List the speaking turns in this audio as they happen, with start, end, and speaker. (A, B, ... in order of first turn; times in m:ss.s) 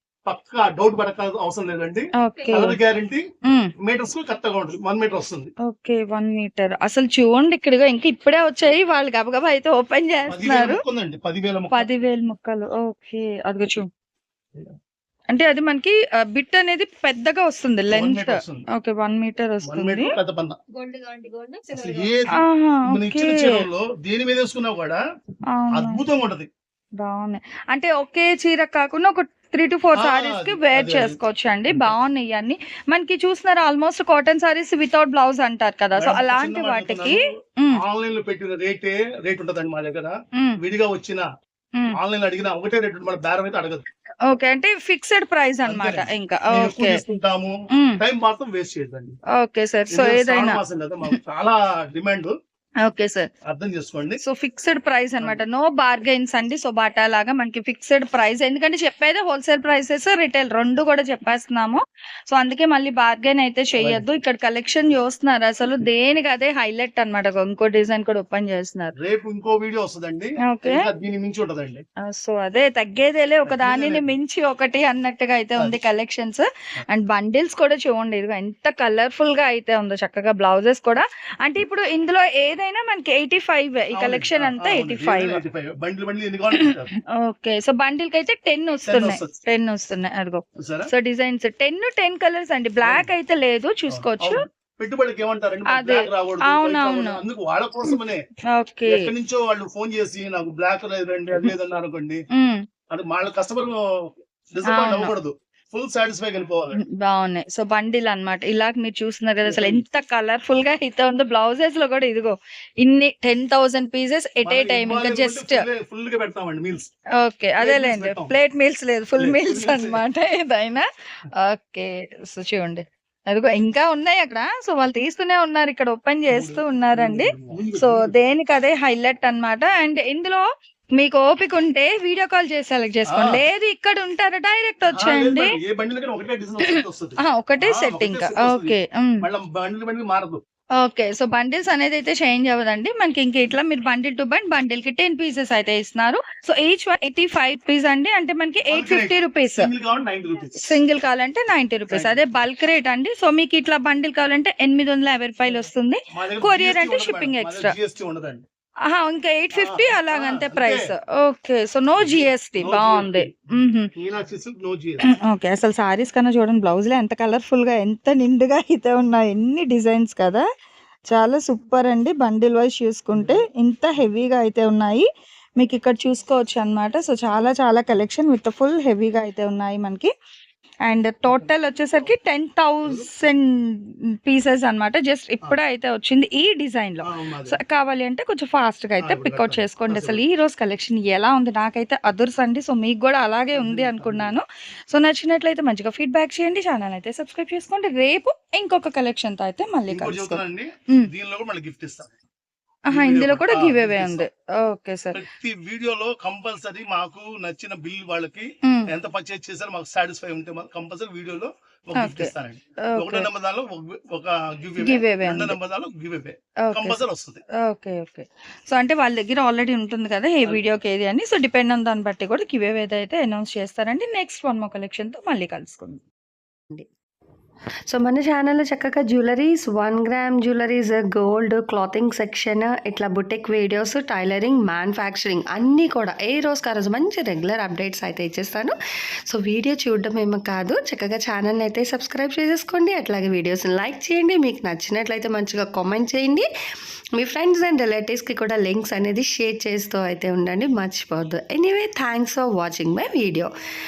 0:00.3-0:03.2 A
0:02.2-0:02.8 B
0:03.8-0:05.5 A
0:05.7-0:10.8 B
0:10.3-0:11.9 A
0:11.7-0:13.8 B
0:15.3-0:20.1 B
0:17.9-0:18.6 A
0:19.6-0:20.6 A
0:21.7-0:25.0 A
0:22.4-0:23.5 B
0:25.5-0:26.0 B
0:25.7-0:26.5 A
0:27.0-0:37.8 B
0:29.9-0:31.9 A
0:36.0-0:37.2 A
0:37.8-0:41.2 A
0:42.0-0:43.8 A
0:44.3-0:47.0 B
0:45.6-0:49.2 A
0:47.7-0:48.0 B
0:49.4-0:51.2 B
0:49.9-0:52.3 A
0:52.8-0:53.3 B
0:53.5-0:54.2 A
0:54.2-1:08.9 B
1:03.8-1:04.0 A
1:09.0-1:11.8 A
1:10.5-1:10.9 B
1:12.0-1:25.4 B
1:13.4-1:14.1 A
1:23.9-1:26.9 A
1:26.5-1:34.4 B
1:28.8-1:29.4 A
1:30.6-1:30.9 A
1:32.8-1:33.1 A
1:33.9-1:38.2 A
1:35.7-1:37.2 B
1:38.5-1:39.1 B
1:38.9-1:42.2 A
1:42.3-1:42.6 B
1:42.9-1:43.8 A
1:44.5-1:46.8 A
1:44.7-1:45.1 B
1:46.7-1:55.7 B
1:49.4-1:49.8 A
1:54.4-1:56.9 A
1:57.2-2:00.9 B
1:57.6-1:58.4 A
1:59.2-2:00.0 A
2:01.4-2:10.4 B
2:06.3-2:08.2 A
2:11.0-2:15.5 B
2:13.1-2:13.4 A
2:14.9-2:20.4 A
2:16.7-2:19.2 B
2:20.8-2:29.7 B
2:28.7-2:30.8 A
2:30.6-2:37.8 B
2:31.9-2:32.2 A
2:36.2-2:38.4 A
2:38.9-2:43.9 B
2:39.5-2:40.9 A
2:42.0-2:43.4 A
2:43.9-2:45.1 A
2:45.0-2:50.4 B
2:51.1-3:00.1 B
2:53.1-2:53.4 A
3:00.8-3:21.1 B
3:07.0-3:07.6 A
3:09.0-3:10.2 A
3:13.6-3:14.4 A
3:19.9-3:22.1 A
3:22.9-3:25.2 B
3:22.9-3:24.3 A
3:25.1-3:37.4 A
3:31.9-3:33.3 B
3:34.8-3:35.6 B
3:36.6-3:37.0 B
3:37.6-3:46.0 B
3:47.9-3:58.8 C
3:59.3-4:06.5 C
4:07.2-4:13.5 C